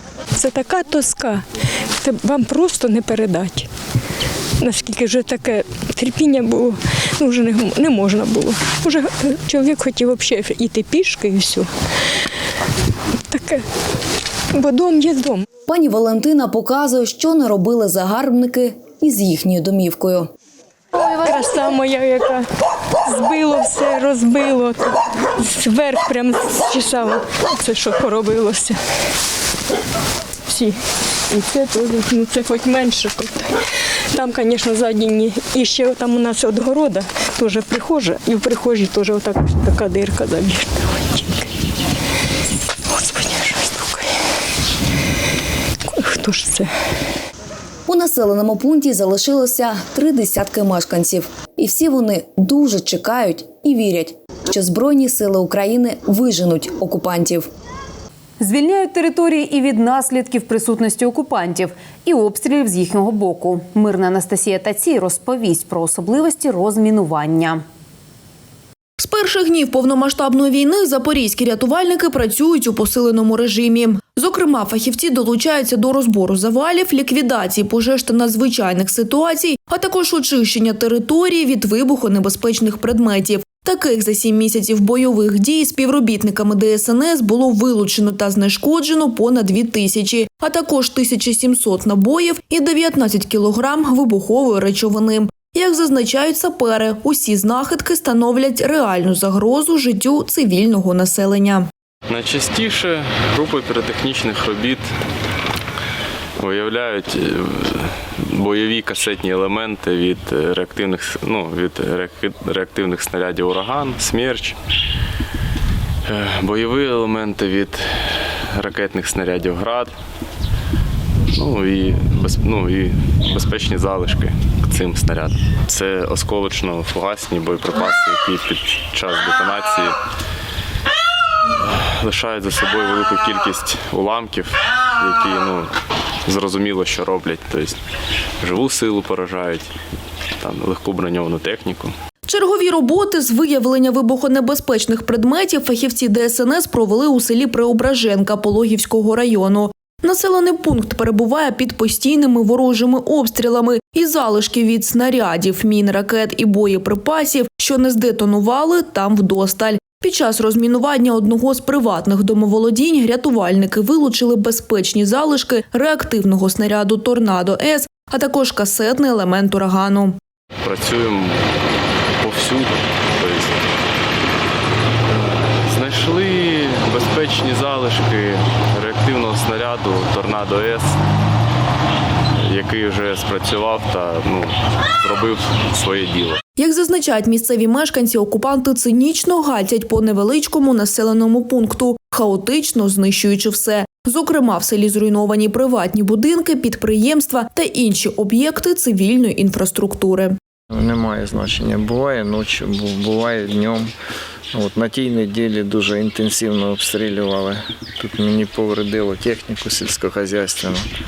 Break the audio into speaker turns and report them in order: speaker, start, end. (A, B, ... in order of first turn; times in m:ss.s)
0:00.4-0:01.4 A
0:02.0-0:03.7 A
0:04.6-0:11.7 A
0:13.3-0:13.6 A
0:14.5-0:15.4 A
0:15.7-0:20.3 B
0:21.0-0:22.5 A
0:23.1-0:24.8 A
0:25.4-0:28.8 A
0:30.5-0:30.8 A
0:31.3-0:33.6 A
0:34.1-0:41.5 A
0:42.9-0:44.1 A
0:45.9-0:46.7 A
0:47.9-0:57.5 B
0:58.4-1:07.6 C
1:09.0-1:41.7 D
1:42.1-1:44.9 E
1:46.4-1:54.6 E
1:56.1-1:59.9 E
2:01.4-2:10.0 E
2:11.6-2:15.7 E
2:16.3-2:17.8 E
2:18.4-2:19.7 E
2:20.4-2:21.9 E
2:22.3-2:50.2 D
2:50.6-2:51.4 E
2:52.2-2:53.6 E
2:55.1-3:00.9 E
3:02.4-3:06.4 E
3:06.6-3:20.4 D
3:20.7-3:23.9 F
3:24.5-3:30.9 F